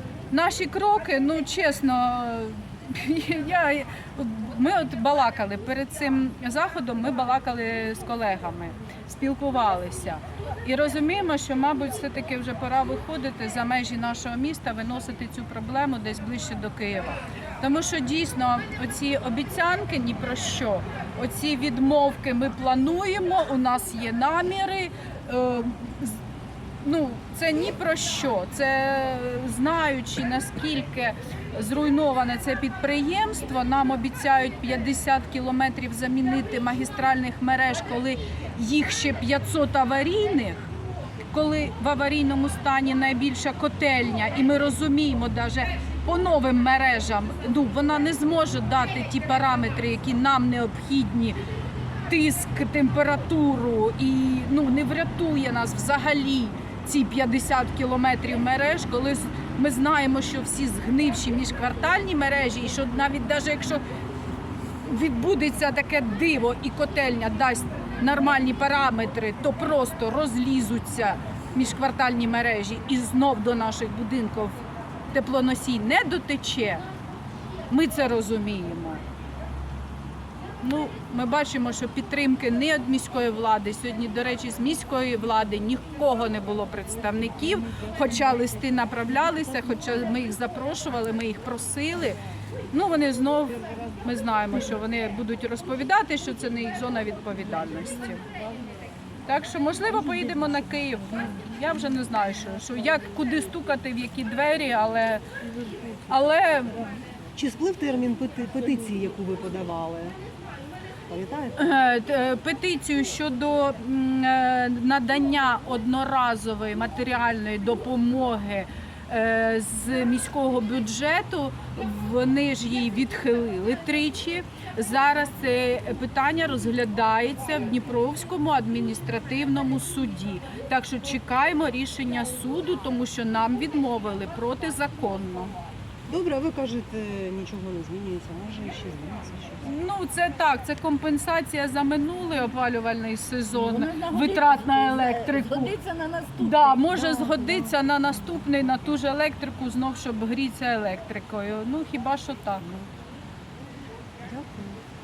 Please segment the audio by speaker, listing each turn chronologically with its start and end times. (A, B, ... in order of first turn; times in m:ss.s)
0:00.3-0:26.2 A
0:26.8-0:40.7 A
0:41.3-0:51.4 A
0:52.1-1:03.8 A
1:04.8-1:14.6 A
1:15.1-1:16.8 A
1:17.7-1:19.0 A
1:20.6-1:32.2 A
1:32.7-1:38.2 A
1:39.3-1:45.2 A
1:46.1-1:46.9 A
1:47.3-1:50.2 B
1:51.1-1:51.7 B
1:51.6-2:15.5 A
2:16.1-2:19.6 B
2:19.6-2:25.8 A
2:23.8-2:26.9 C
2:26.4-2:32.7 A
2:34.2-2:34.8 B